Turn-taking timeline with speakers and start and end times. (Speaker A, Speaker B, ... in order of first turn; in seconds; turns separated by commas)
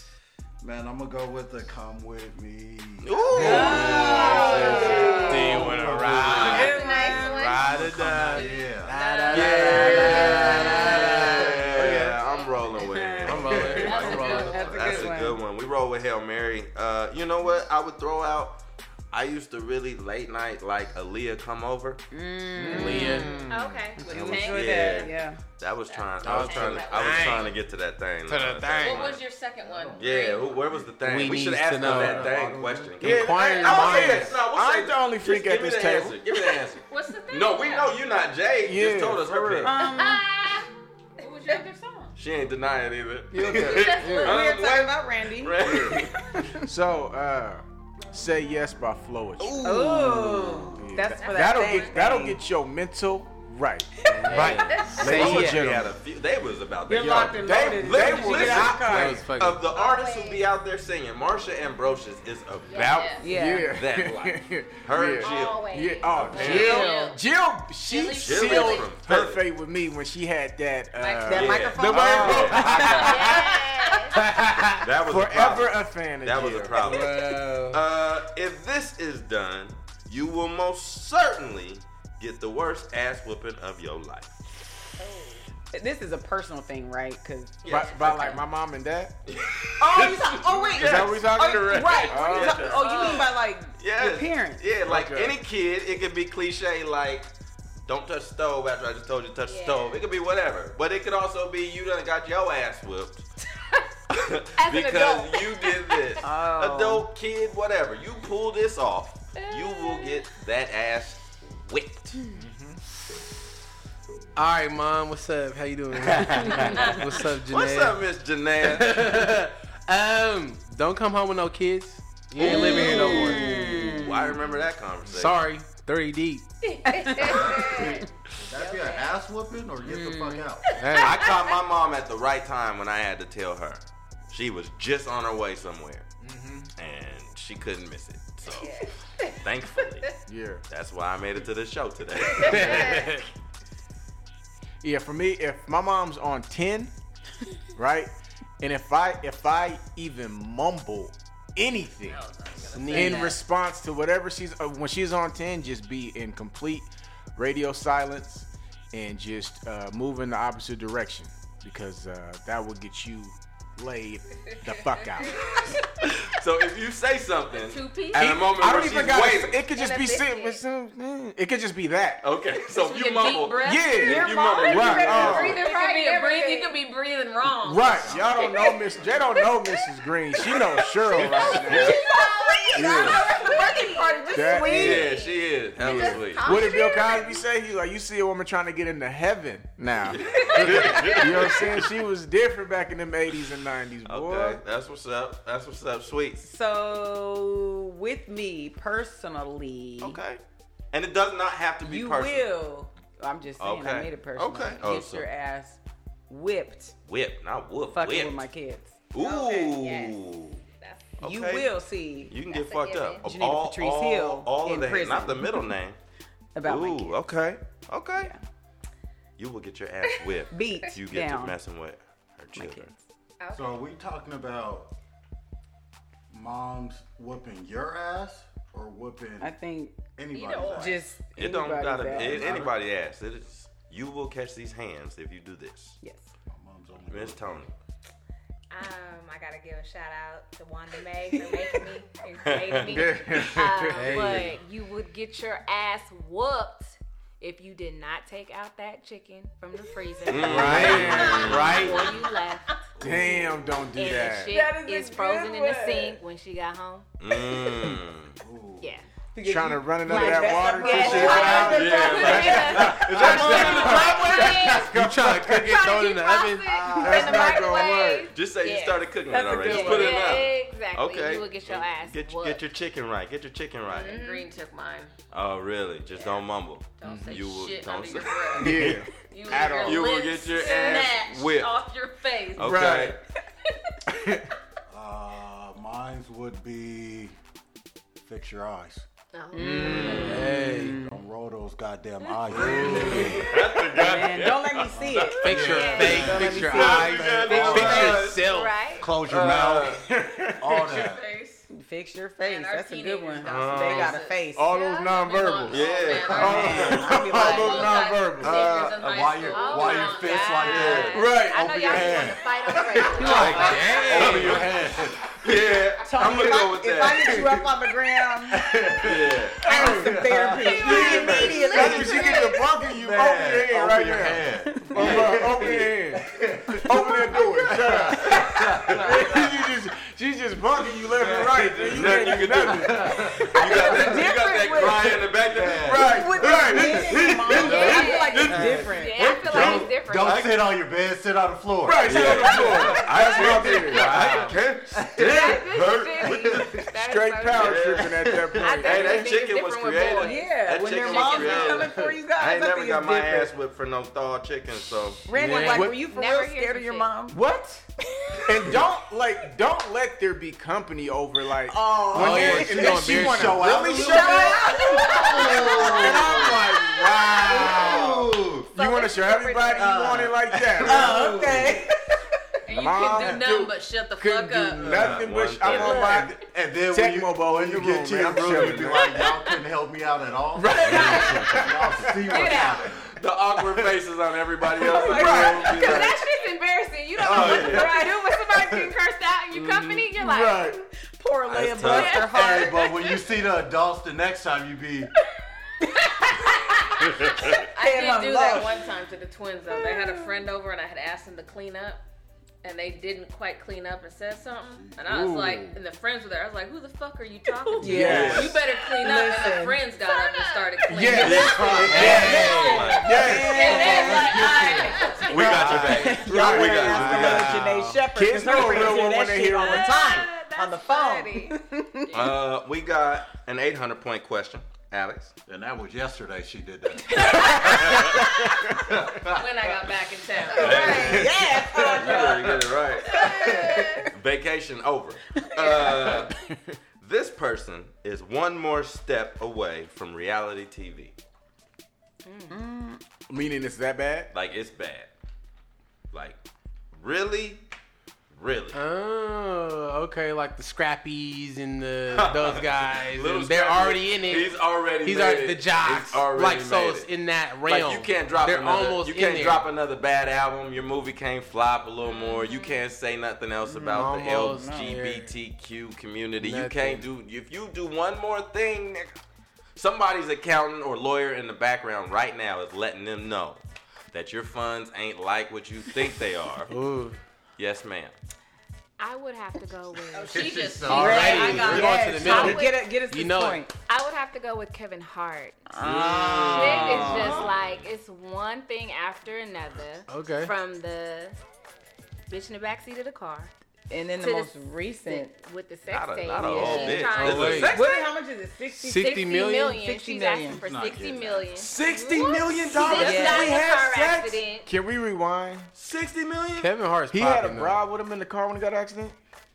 Speaker A: 0.6-6.8, Speaker B: 3.0-6.8, Speaker C: 3.4-5.8, Speaker D: 3.4-5.6, Speaker E: 3.4-3.7, Speaker F: 3.4-4.1, Speaker F: 5.2-11.9, Speaker D: 6.3-7.7, Speaker C: 6.4-7.5, Speaker G: 6.8-7.3, Speaker A: 7.6-9.0, Speaker G: 8.3-10.8, Speaker D: 9.1-9.3, Speaker B: 9.3-18.6, Speaker C: 9.6-12.1, Speaker D: 9.9-11.2, Speaker E: 11.8-12.2, Speaker G: 12.2-12.5, Speaker C: 12.8-15.4, Speaker F: 13.3-14.7, Speaker A: 13.5-14.1, Speaker G: 13.7-15.1, Speaker B: 19.1-22.0, Speaker C: 22.1-25.4, Speaker F: 22.6-23.6, Speaker E: 22.6-23.8, Speaker D: 23.5-24.1, Speaker G: 24.0-25.2, Speaker B: 24.1-29.2, Speaker G: 25.9-27.6, Speaker F: 26.2-27.5, Speaker F: 28.3-29.1, Speaker G: 28.8-30.5, Speaker A: 29.6-33.0, Speaker B: 30.0-39.8, Speaker F: 31.0-32.4, Speaker F: 33.0-34.4, Speaker E: 33.0-36.2, Speaker G: 36.8-38.0, Speaker E: 38.6-39.8, Speaker C: 39.6-40.3, Speaker D: 39.8-40.7, Speaker G: 41.2-42.1, Speaker D: 41.2-41.6, Speaker B: 42.2-46.3, Speaker E: 43.3-44.3, Speaker G: 43.5-44.4, Speaker C: 43.5-45.6, Speaker D: 43.8-44.4, Speaker E: 46.6-50.0, Speaker B: 49.4-51.0, Speaker C: 49.6-52.4, Speaker E: 50.8-53.9, Speaker D: 51.2-52.0, Speaker F: 54.1-55.5, Speaker C: 54.2-54.5, Speaker B: 54.2-66.9, Speaker G: 54.4-55.1, Speaker E: 55.0-56.0, Speaker C: 55.1-55.7, Speaker C: 56.9-59.2, Speaker E: 57.1-59.3, Speaker F: 58.4-59.7, Speaker D: 59.7-60.5, Speaker D: 62.7-63.2, Speaker G: 62.8-63.3, Speaker C: 63.2-63.8, Speaker E: 63.3-73.6, Speaker D: 65.2-66.9, Speaker G: 66.3-67.2, Speaker C: 66.6-67.2, Speaker G: 67.8-68.9, Speaker B: 68.2-69.4, Speaker G: 71.0-71.7, Speaker C: 71.3-73.5, Speaker B: 71.3-73.2, Speaker G: 72.4-73.3, Speaker D: 73.0-74.2, Speaker F: 74.2-74.9, Speaker B: 74.8-84.4, Speaker E: 75.0-77.1, Speaker F: 76.8-77.8, Speaker D: 85.0-85.5, Speaker C: 85.7-88.4, Speaker B: 87.6-88.0, Speaker E: 87.7-89.1, Speaker B: 89.3-97.3, Speaker C: 89.8-94.7, Speaker E: 90.7-92.8, Speaker G: 92.7-93.3, Speaker E: 94.8-95.4, Speaker B: 97.9-103.3, Speaker D: 99.5-100.0, Speaker B: 104.1-112.2, Speaker D: 104.6-106.2, Speaker C: 106.2-107.1, Speaker D: 109.4-110.2, Speaker E: 112.4-112.8, Speaker F: 114.3-118.0, Speaker B: 116.0-119.3, Speaker G: 116.6-117.0, Speaker F: 118.6-123.8, Speaker B: 122.4-125.4, Speaker C: 122.4-124.5, Speaker F: 125.1-126.5, Speaker D: 126.6-129.2, Speaker C: 126.9-128.0, Speaker A: 127.2-130.7, Speaker C: 129.8-130.5, Speaker D: 130.7-131.6, Speaker F: 130.8-131.4, Speaker B: 131.0-136.1, Speaker E: 136.2-136.7, Speaker B: 136.8-140.1, Speaker D: 138.4-139.4, Speaker E: 140.3-140.6, Speaker B: 140.7-143.1, Speaker D: 142.2-143.2, Speaker F: 142.3-143.2, Speaker E: 144.8-146.9, Speaker E: 147.8-152.3, Speaker G: 152.1-153.4, Speaker F: 152.7-153.4, Speaker E: 152.9-165.6, Speaker D: 165.2-165.8, Speaker B: 166.0-169.6, Speaker G: 167.5-168.4, Speaker E: 168.2-172.2, Speaker D: 169.7-170.6, Speaker B: 172.2-175.6, Speaker G: 172.7-174.3, Speaker E: 173.6-175.6, Speaker C: 173.9-175.7, Speaker G: 175.1-178.7, Speaker D: 175.2-176.8, Speaker E: 177.6-182.0, Speaker B: 178.0-178.3, Speaker D: 178.4-178.7, Speaker B: 181.2-182.0, Speaker D: 181.4-187.4, Speaker C: 181.6-185.1, Speaker E: 182.7-183.3, Speaker E: 184.3-185.1, Speaker B: 184.7-186.7, Speaker E: 185.8-194.6, Speaker B: 190.1-191.9, Speaker D: 190.7-191.2, Speaker B: 194.1-196.5, Speaker C: 196.4-200.2, Speaker B: 200.0-200.4, Speaker B: 200.9-202.6, Speaker C: 201.8-207.0, Speaker B: 203.6-205.3, Speaker B: 207.1-208.5, Speaker C: 207.9-209.0, Speaker B: 209.1-210.6, Speaker D: 209.2-210.2, Speaker D: 210.8-211.1, Speaker B: 211.2-211.7, Speaker C: 211.2-212.4, Speaker B: 212.3-216.0, Speaker D: 212.5-213.2, Speaker C: 213.2-215.7, Speaker C: 216.6-217.2, Speaker B: 216.6-218.3, Speaker B: 219.4-222.9, Speaker C: 220.5-221.6, Speaker C: 222.6-223.0, Speaker D: 223.4-223.8, Speaker A: 223.5-224.9, Speaker A: 226.3-229.5, Speaker C: 229.4-230.1, Speaker A: 230.2-231.1, Speaker D: 230.3-231.1, Speaker C: 230.7-232.5, Speaker B: 231.3-236.0, Speaker A: 232.1-232.8, Speaker C: 236.0-236.3, Speaker A: 236.5-237.7, Speaker B: 237.1-237.7, Speaker D: 238.7-252.7, Speaker C: 241.3-241.8, Speaker B: 242.4-243.1, Speaker E: 242.8-244.5, Speaker F: 243.9-244.5, Speaker B: 250.3-252.0, Speaker E: 250.5-251.8, Speaker F: 250.5-252.1, Speaker A: 253.0-253.8, Speaker E: 253.0-254.6, Speaker D: 253.9-257.1, Speaker C: 254.3-256.2, Speaker B: 257.2-258.4, Speaker C: 257.4-257.9, Speaker A: 258.4-258.9, Speaker D: 258.8-259.1, Speaker C: 259.3-262.8, Speaker E: 259.4-265.8, Speaker D: 260.0-269.1, Speaker A: 260.9-263.7, Speaker B: 261.6-264.4, Speaker F: 264.4-266.7, Speaker E: 266.7-268.3, Speaker C: 266.7-267.9, Speaker B: 268.3-274.2, Speaker C: 269.3-270.5, Speaker D: 269.6-272.6, Speaker G: 273.9-275.1, Speaker D: 273.9-274.5, Speaker B: 275.3-279.1, Speaker G: 277.0-283.1, Speaker E: 277.0-277.4, Speaker E: 278.5-280.1, Speaker B: 279.8-281.8, Speaker D: 280.6-280.9, Speaker B: 282.6-283.2, Speaker E: 282.6-283.2, Speaker E: 284.1-284.4, Speaker A: 284.9-287.4, Speaker A: 288.2-289.1, Speaker D: 289.3-290.3, Speaker C: 289.5-291.2, Speaker E: 289.6-290.4, Speaker B: 289.9-290.5, Speaker F: 290.2-291.0, Speaker A: 291.0-293.8, Speaker B: 292.5-298.5, Speaker E: 292.6-293.3, Speaker C: 292.8-293.3, Speaker C: 293.9-297.1, Speaker A: 294.9-298.3, Speaker F: 295.4-298.8, Speaker D: 295.7-296.8, Speaker D: 297.7-299.1, Speaker A: 299.0-301.2, Speaker B: 299.2-300.0, Speaker E: 300.1-301.1, Speaker G: 300.8-301.6, Speaker C: 301.7-304.7, Speaker G: 302.4-311.1, Speaker B: 303.4-304.2, Speaker E: 304.6-308.6, Speaker D: 304.7-305.9, Speaker B: 305.7-307.1, Speaker C: 306.3-308.0, Speaker B: 308.4-309.3, Speaker A: 308.4-316.5, Speaker D: 309.5-314.7, Speaker B: 310.7-311.2, Speaker E: 311.1-312.4, Speaker F: 313.2-314.7, Speaker B: 313.2-314.9, Speaker B: 315.4-317.5, Speaker C: 316.1-318.6, Speaker A: 318.5-329.5, Speaker B: 319.0-319.6, Speaker E: 319.6-334.1, Speaker C: 319.7-322.4, Speaker D: 320.6-322.7, Speaker C: 324.8-325.2, Speaker B: 324.9-325.9, Speaker B: 328.2-329.3, Speaker A: 331.1-334.1, Speaker B: 331.8-336.2, Speaker C: 333.6-335.2, Speaker A: 335.3-337.9, Speaker E: 335.8-338.7, Speaker C: 336.0-339.5, Speaker B: 337.5-340.7, Speaker D: 337.6-340.6, Speaker A: 338.5-338.8, Speaker A: 339.4-343.8, Speaker E: 341.8-344.6, Speaker B: 342.0-346.7, Speaker D: 343.1-344.1, Speaker D: 345.2-348.1, Speaker A: 345.2-345.7, Speaker C: 345.2-345.6, Speaker A: 346.2-346.8, Speaker E: 346.9-349.3, Speaker B: 347.5-355.3, Speaker G: 348.6-351.9, Speaker D: 348.6-349.3, Speaker C: 350.2-353.5, Speaker C: 355.3-357.4, Speaker E: 355.4-356.0, Speaker F: 355.4-355.9, Speaker D: 355.8-357.1, Speaker E: 357.3-357.8, Speaker C: 358.2-358.7, Speaker E: 358.5-371.7, Speaker C: 361.7-362.9, Speaker F: 362.1-363.7, Speaker A: 362.1-368.7, Speaker C: 363.8-366.1, Speaker D: 364.5-370.2, Speaker A: 369.7-371.9, Speaker C: 370.8-372.1, Speaker G: 372.7-375.0, Speaker E: 372.7-379.1, Speaker B: 374.8-376.3, Speaker A: 374.9-383.1, Speaker B: 378.6-378.9, Speaker D: 379.1-379.5, Speaker E: 380.6-382.1, Speaker D: 380.8-381.6, Speaker D: 382.2-382.9, Speaker B: 383.2-386.2, Speaker E: 384.8-386.1, Speaker C: 385.0-385.5, Speaker D: 385.0-390.8, Speaker A: 387.2-388.0, Speaker B: 387.2-387.9, Speaker A: 388.5-388.9, Speaker B: 389.5-390.0, Speaker E: 390.2-390.8, Speaker C: 391.0-393.0, Speaker B: 391.5-392.3, Speaker D: 391.8-393.2, Speaker A: 392.2-395.1, Speaker C: 395.8-396.8, Speaker D: 396.4-397.1, Speaker C: 397.4-398.9, Speaker G: 397.6-402.1, Speaker G: 402.6-415.6, Speaker A: 404.7-405.0, Speaker E: 405.1-405.8, Speaker C: 407.8-409.8, Speaker E: 407.8-408.6, Speaker B: 408.0-408.6, Speaker D: 410.0-411.8, Speaker E: 410.9-414.4, Speaker B: 411.2-413.4, Speaker A: 411.6-412.4, Speaker C: 411.8-414.5, Speaker F: 411.9-412.8, Speaker D: 412.5-413.0, Speaker D: 413.6-415.4, Speaker A: 413.7-416.2, Speaker B: 415.3-417.7, Speaker F: 415.6-416.2, Speaker E: 415.6-420.2, Speaker C: 415.9-422.3, Speaker F: 416.9-418.0, Speaker D: 419.5-421.6, Speaker B: 422.1-425.3, Speaker A: 425.5-427.8, Speaker A: 428.7-429.7, Speaker G: 429.3-431.1, Speaker B: 430.5-436.4, Speaker C: 430.5-434.1, Speaker D: 433.2-434.0, Speaker C: 435.6-436.3, Speaker B: 437.0-441.1, Speaker D: 442.2-442.6, Speaker C: 442.5-443.0, Speaker E: 443.3-444.3, Speaker B: 444.3-445.1, Speaker B: 446.1-446.4, Speaker B: 446.9-447.6, Speaker B: 448.3-448.8, Speaker F: 448.7-459.7, Speaker B: 452.1-457.1, Speaker B: 457.7-469.2, Speaker D: 462.0-462.9, Speaker C: 463.6-464.9, Speaker F: 463.9-465.3, Speaker F: 466.4-467.1, Speaker B: 469.8-473.6, Speaker B: 474.1-476.7, Speaker F: 476.7-477.2, Speaker B: 477.6-478.1, Speaker D: 479.0-480.9, Speaker G: 480.1-482.5, Speaker A: 480.3-481.8, Speaker C: 480.9-483.7, Speaker F: 480.9-483.6, Speaker D: 482.2-482.8, Speaker D: 483.9-485.6, Speaker C: 485.7-487.4, Speaker B: 485.8-487.9, Speaker D: 486.5-491.4, Speaker A: 486.9-487.5, Speaker F: 490.1-490.5, Speaker D: 492.3-493.5, Speaker C: 493.9-495.3, Speaker D: 494.2-498.1, Speaker B: 495.9-497.9, Speaker C: 496.4-500.6, Speaker F: 497.1-497.8, Speaker F: 498.7-499.8, Speaker D: 499.0-504.7, Speaker A: 500.6-501.7, Speaker E: 501.6-505.7, Speaker B: 502.2-503.5, Speaker C: 502.8-503.6, Speaker B: 505.8-506.7, Speaker F: 506.6-507.8, Speaker E: 507.1-509.2